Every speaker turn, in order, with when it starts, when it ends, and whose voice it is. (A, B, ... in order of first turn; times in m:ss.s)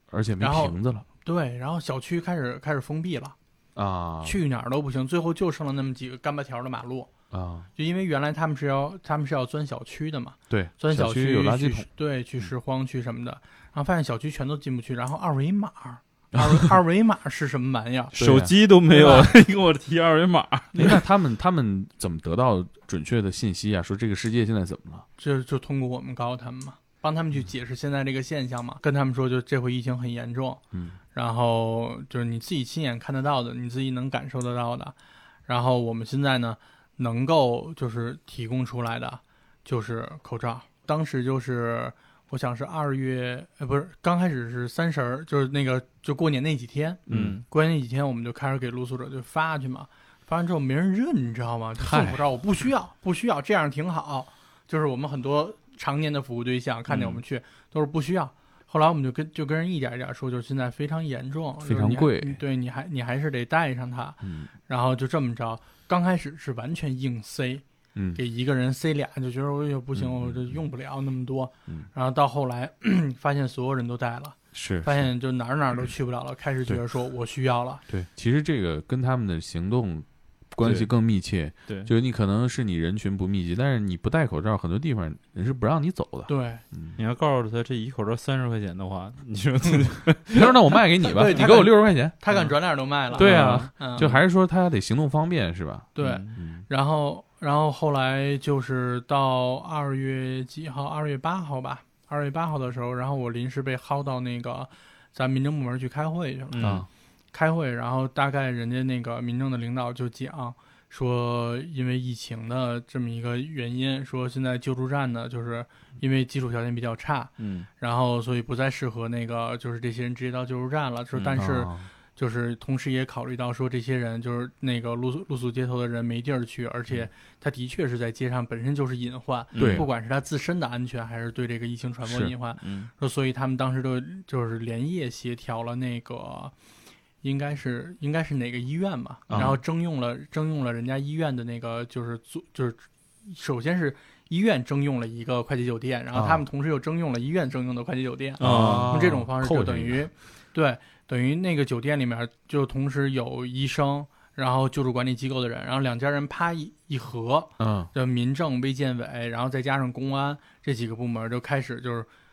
0:00.1-0:01.0 A
0:00.4-0:03.3 B
0:03.8-0:04.4 A
0:04.2-0:07.1 B
0:07.3-0:07.7 A
0:07.8-0:18.2 B
0:10.5-0:11.9 A
0:18.2-0:18.5 A
0:18.2-0:21.0 C
0:18.9-0:19.3 B
0:20.7-0:25.0 A
0:25.2-0:30.6 B
0:30.7-0:31.0 A
0:31.1-0:34.9 B
0:35.5-1:07.6 B
0:47.1-0:47.4 A
0:47.1-0:47.4 C
0:51.8-0:52.2 A
0:56.9-0:57.2 C
1:01.6-1:02.4 A
1:04.2-1:04.5 A
1:07.9-1:08.2 A
1:08.1-1:17.8 B
1:09.9-1:10.6 A
1:14.5-1:15.1 A
1:17.9-1:27.0 A
1:20.6-1:20.9 C
1:26.3-1:26.6 B
1:27.0-1:30.5 C
1:30.3-1:32.1 A
1:31.0-1:34.1 B
1:33.1-1:34.2 C
1:33.2-1:36.6 A
1:35.9-1:46.8 B
1:36.0-1:36.4 C
1:46.5-1:46.8 C
1:46.6-1:46.9 A
1:47.3-2:16.5 B
1:57.4-1:57.7 C
2:01.4-2:01.9 A
2:09.5-2:09.8 C
2:09.6-2:09.8 A
2:12.0-2:12.3 A
2:12.6-2:12.9 C
2:17.2-2:42.1 B
2:19.3-2:19.6 A
2:26.1-2:26.4 A
2:28.4-2:29.0 C
2:28.4-2:30.0 A
2:37.6-2:37.9 A